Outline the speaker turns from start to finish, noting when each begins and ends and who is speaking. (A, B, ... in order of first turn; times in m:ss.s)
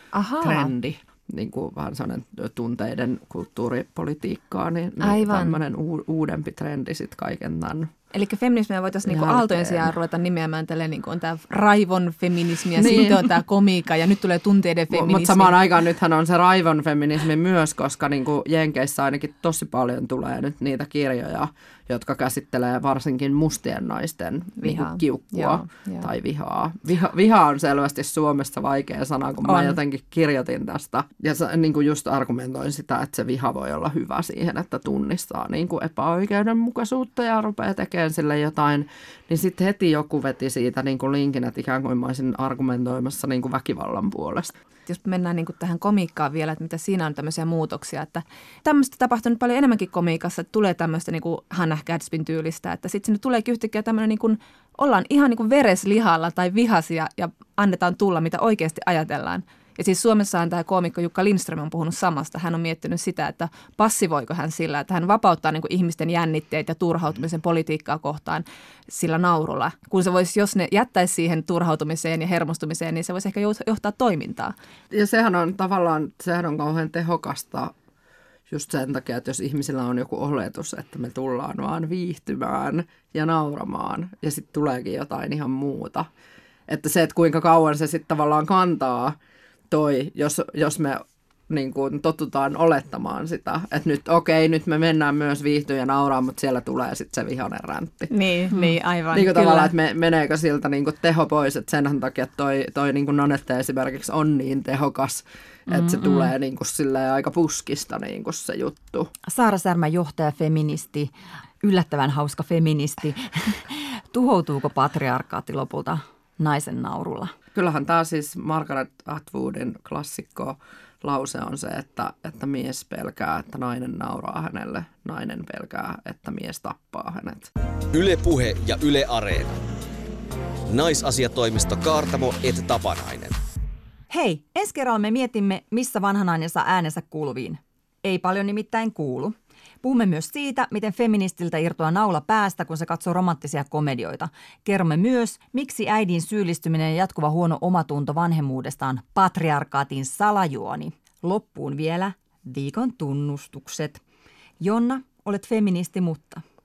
0:00.1-0:00.7 A
0:00.4-0:07.9 B
0:05.0-0:05.6 A
0:08.1-0:15.6 A
0:09.1-0:09.9 B
0:12.8-0:13.2 B
0:14.9-0:44.5 B
0:24.6-0:26.1 A
0:29.4-0:29.8 A
0:44.9-1:14.5 A
1:14.9-1:17.7 B
1:18.5-1:26.1 B
1:26.7-1:29.2 B
1:29.7-1:38.1 B
1:38.1-1:39.7 A
1:38.5-1:38.8 C
1:39.1-1:49.1 B
1:45.7-1:46.3 C
1:49.2-1:57.3 C
1:57.6-2:07.5 B
2:07.9-2:09.6 D
2:10.7-2:13.4 D
2:14.1-2:34.0 C
2:34.6-2:36.4 C